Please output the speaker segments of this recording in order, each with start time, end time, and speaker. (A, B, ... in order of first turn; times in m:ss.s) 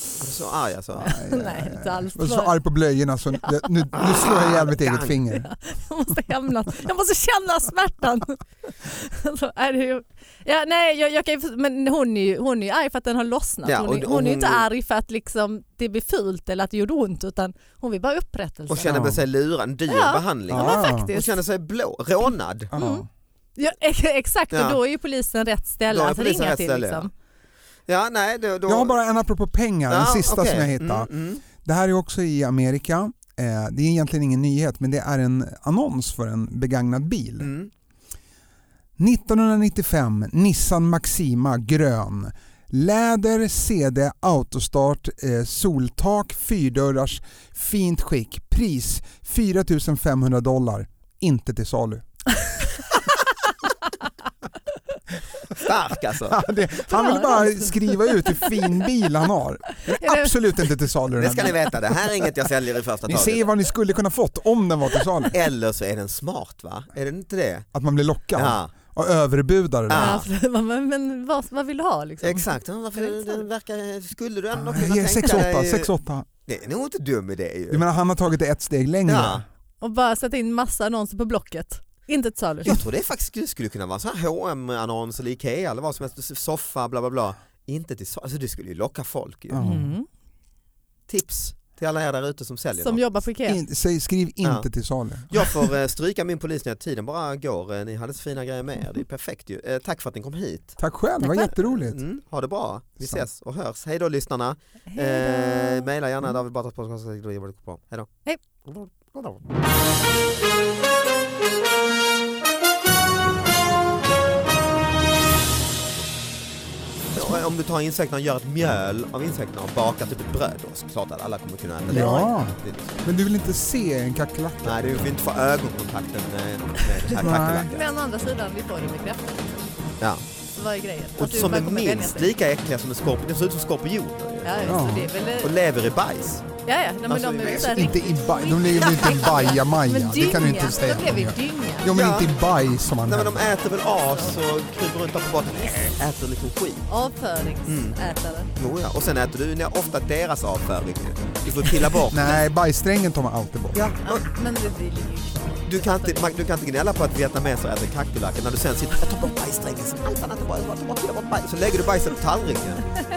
0:00.2-0:01.2 A
0:01.0-0:02.6 B
0:01.0-0:05.5 C
0:03.9-0:05.2 A
0:05.3-0:18.9 B
0:13.6-0:14.6 A
0:18.7-0:22.7 A
0:18.9-0:19.2 C
0:19.9-0:21.4 B
0:20.5-0:21.1 C
0:22.7-0:23.1 C
0:22.7-0:23.0 B
0:23.6-0:27.1 B
0:24.5-0:24.8 A
0:25.9-0:27.1 A
0:27.9-0:28.9 A
0:28.7-0:31.1 C
0:29.9-0:31.4 A
0:31.6-0:37.5 C
0:37.4-0:37.7 A
0:39.0-0:52.1 C
0:55.5-0:56.4 A
0:56.2-1:01.6 C
0:56.9-0:58.7 B
0:59.8-1:00.4 B
1:01.1-1:03.4 A
1:03.1-1:05.4 C
1:05.3-1:07.7 A
1:07.7-1:10.1 C
1:08.4-1:08.7 A
1:09.9-1:10.3 A
1:09.9-1:13.4 B
1:12.2-1:15.9 A
1:14.5-1:16.3 C
1:16.5-1:17.8 A
1:17.7-1:19.4 C
1:19.1-1:19.4 A
1:19.8-1:22.8 B
1:22.6-1:29.6 A
1:29.5-1:29.9 C
1:29.6-1:30.1 B
1:31.1-1:33.0 A
1:32.8-1:33.6 B
1:33.4-1:35.6 C
1:35.3-1:40.8 A
1:40.8-1:42.0 C
1:41.2-1:41.5 B
1:41.5-1:48.1 A
1:44.9-1:45.9 B
1:48.6-1:49.4 A
1:57.1-2:03.0 A
2:01.9-2:05.1 C
2:01.9-2:02.3 B
2:04.6-2:07.9 A
2:07.2-2:07.7 C
2:07.7-2:09.6 B
2:10.6-2:12.3 B
2:11.2-2:14.8 A
2:14.4-2:15.5 B
2:14.6-2:15.1 C
2:15.4-2:16.4 A
2:16.6-2:21.9 B
2:17.1-2:23.4 C
2:21.9-2:22.3 A
2:23.1-2:26.9 A
2:24.0-2:24.4 B
2:26.9-2:28.5 B
2:27.7-2:28.0 A
2:28.6-2:32.3 A
2:32.1-2:33.8 C
2:33.7-2:34.3 A
2:34.0-2:36.2 B
2:35.7-2:42.8 A